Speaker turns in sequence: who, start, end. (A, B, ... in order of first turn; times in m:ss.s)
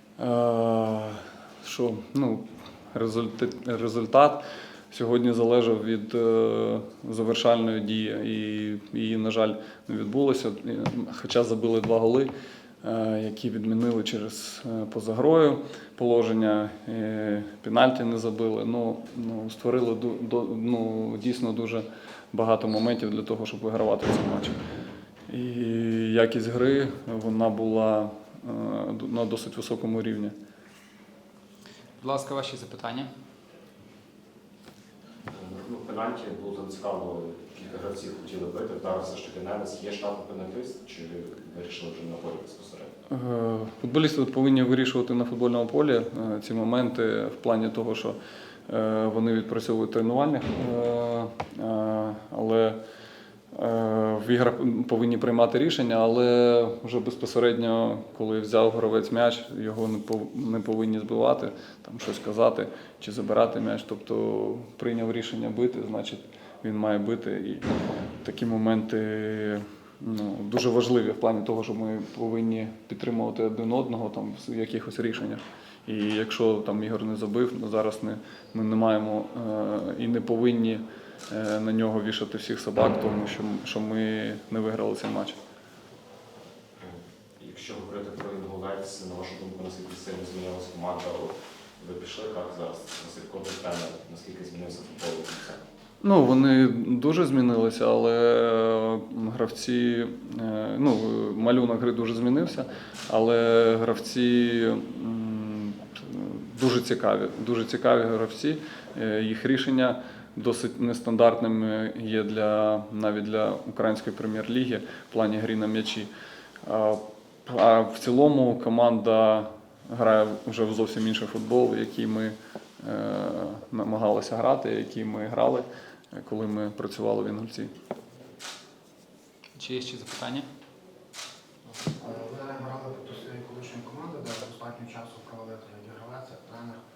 0:00.2-0:12.3 A
0:12.8-0:24.6 A
0:25.3-0:30.4 A
0:32.0-0:33.1 B
0:35.3-0:42.9 C
0:43.1-0:52.8 A
0:53.5-1:07.6 A
1:08.2-1:25.4 A
1:26.8-1:35.6 C
1:36.0-1:56.1 A
1:56.6-2:07.7 A
2:09.6-2:10.5 B
2:11.8-2:16.8 D